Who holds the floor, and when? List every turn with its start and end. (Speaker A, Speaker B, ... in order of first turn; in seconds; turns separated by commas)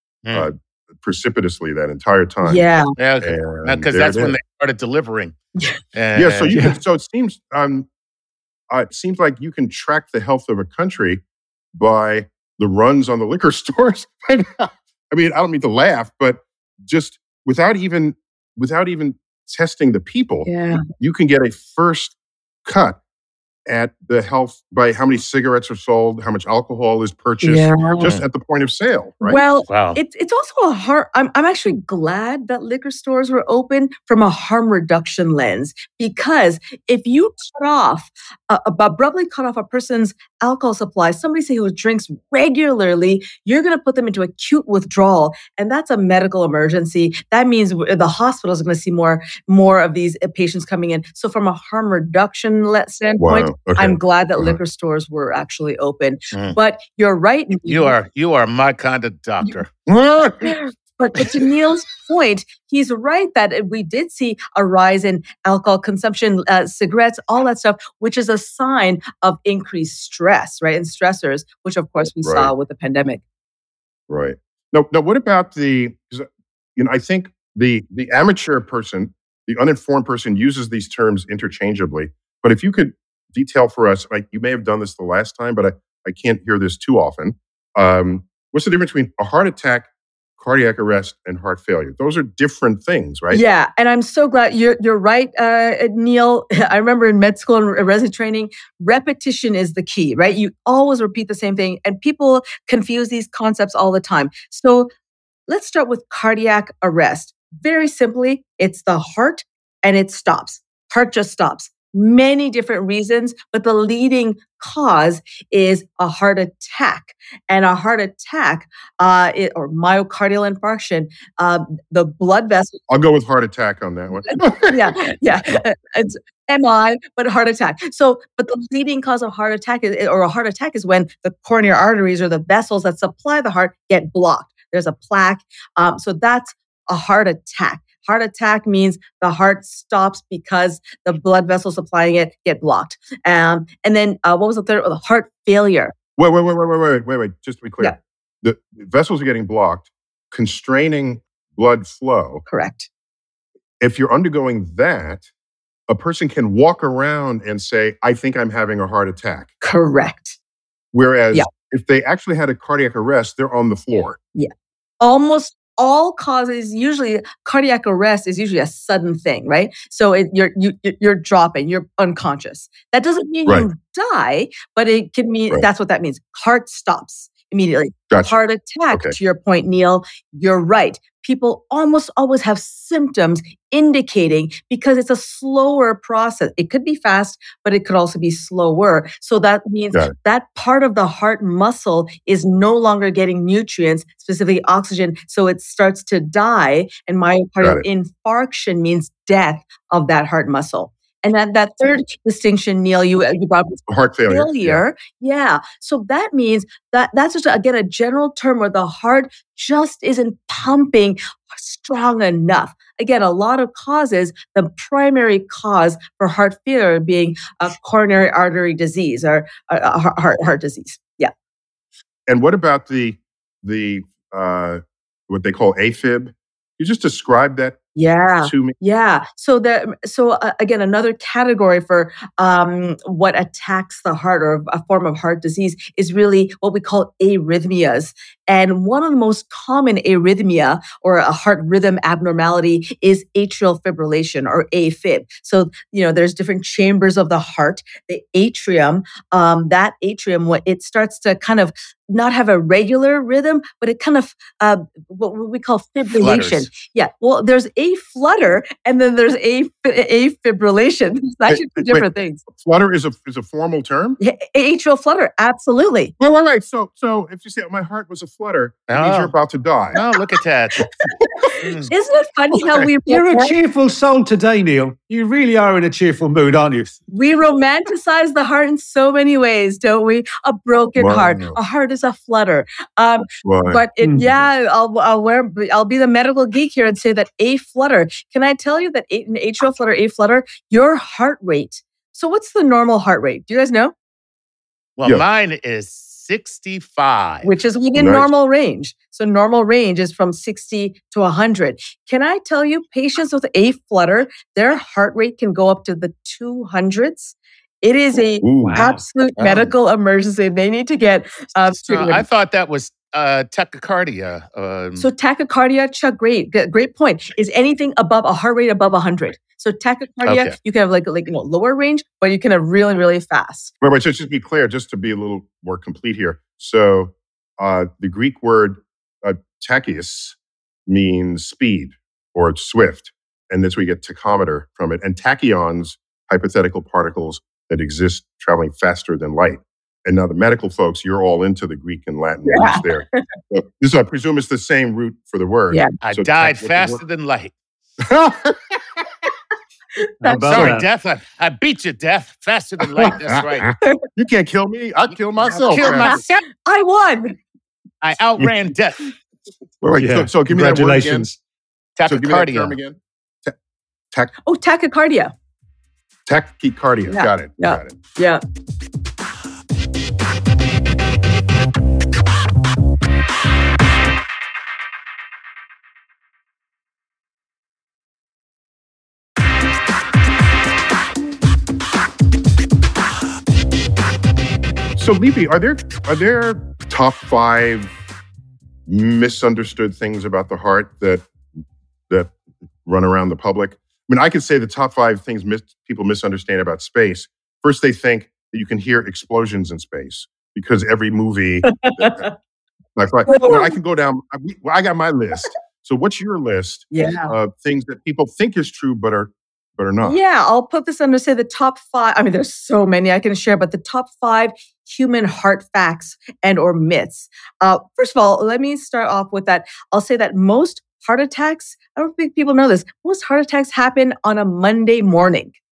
Speaker A: 0.3-2.6, Speaker B: 2.4-2.9, Speaker C: 3.0-5.3, Speaker A: 3.2-4.3, Speaker C: 5.9-6.5, Speaker A: 6.1-7.9, Speaker D: 6.5-6.8, Speaker A: 8.7-11.2, Speaker A: 11.7-23.0, Speaker B: 20.4-20.8, Speaker A: 23.7-29.4, Speaker B: 27.4-28.1, Speaker B: 29.2-57.9, Speaker C: 29.7-30.0, Speaker A: 53.2-54.6, Speaker C: 56.3-56.6, Speaker C: 57.7-59.7, Speaker A: 59.9-60.6, Speaker B: 61.0-73.2, Speaker A: 72.2-72.5, Speaker A: 74.1-93.4, Speaker B: 93.3-104.9, Speaker B: 105.5-122.8, Speaker A: 122.9-125.2, Speaker B: 124.7-145.9, Speaker A: 146.2-152.4, Speaker B: 152.4-152.9, Speaker A: 153.8-155.2, Speaker A: 155.9-159.5, Speaker B: 159.6-160.3, Speaker A: 160.9-164.2, Speaker B: 164.3-221.3, Speaker A: 178.9-179.2, Speaker A: 203.9-204.8, Speaker A: 222.3-227.8, Speaker B: 227.9-262.4, Speaker A: 228.4-228.8, Speaker C: 256.1-256.7, Speaker A: 261.5-264.2, Speaker B: 264.2-266.1, Speaker A: 266.2-270.0, Speaker C: 268.9-269.3, Speaker C: 269.9-270.9, Speaker C: 271.6-271.9, Speaker B: 271.9-273.5, Speaker D: 273.1-277.0, Speaker B: 277.1-293.9, Speaker A: 281.0-281.6, Speaker A: 283.4-284.4, Speaker D: 284.0-284.3, Speaker C: 295.0-297.5, Speaker B: 297.4-312.2, Speaker A: 297.9-298.3, Speaker A: 308.4-308.9, Speaker D: 308.6-309.0, Speaker C: 309.4-309.7, Speaker C: 311.7-315.1, Speaker B: 315.0-323.7, Speaker C: 320.2-320.6, Speaker A: 323.8-330.4, Speaker A: 330.9-347.0, Speaker B: 342.5-343.2, Speaker C: 346.0-347.5, Speaker A: 348.0-348.8, Speaker D: 350.2-350.9, Speaker B: 350.2-350.7, Speaker C: 350.4-353.7, Speaker A: 353.0-356.1, Speaker C: 355.4-356.4, Speaker B: 355.8-357.4, Speaker C: 358.0-359.1, Speaker A: 359.8-361.3, Speaker D: 360.0-361.4, Speaker C: 362.0-362.7, Speaker A: 362.1-363.6, Speaker B: 364.4-365.3, Speaker A: 366.3-367.9, Speaker B: 367.1-368.4, Speaker A: 385.0-387.9, Speaker A: 388.9-391.2, Speaker A: 392.9-402.2, Speaker B: 401.7-402.3, Speaker A: 402.9-410.2, Speaker B: 403.3-403.7, Speaker B: 406.9-407.3, Speaker B: 410.0-425.5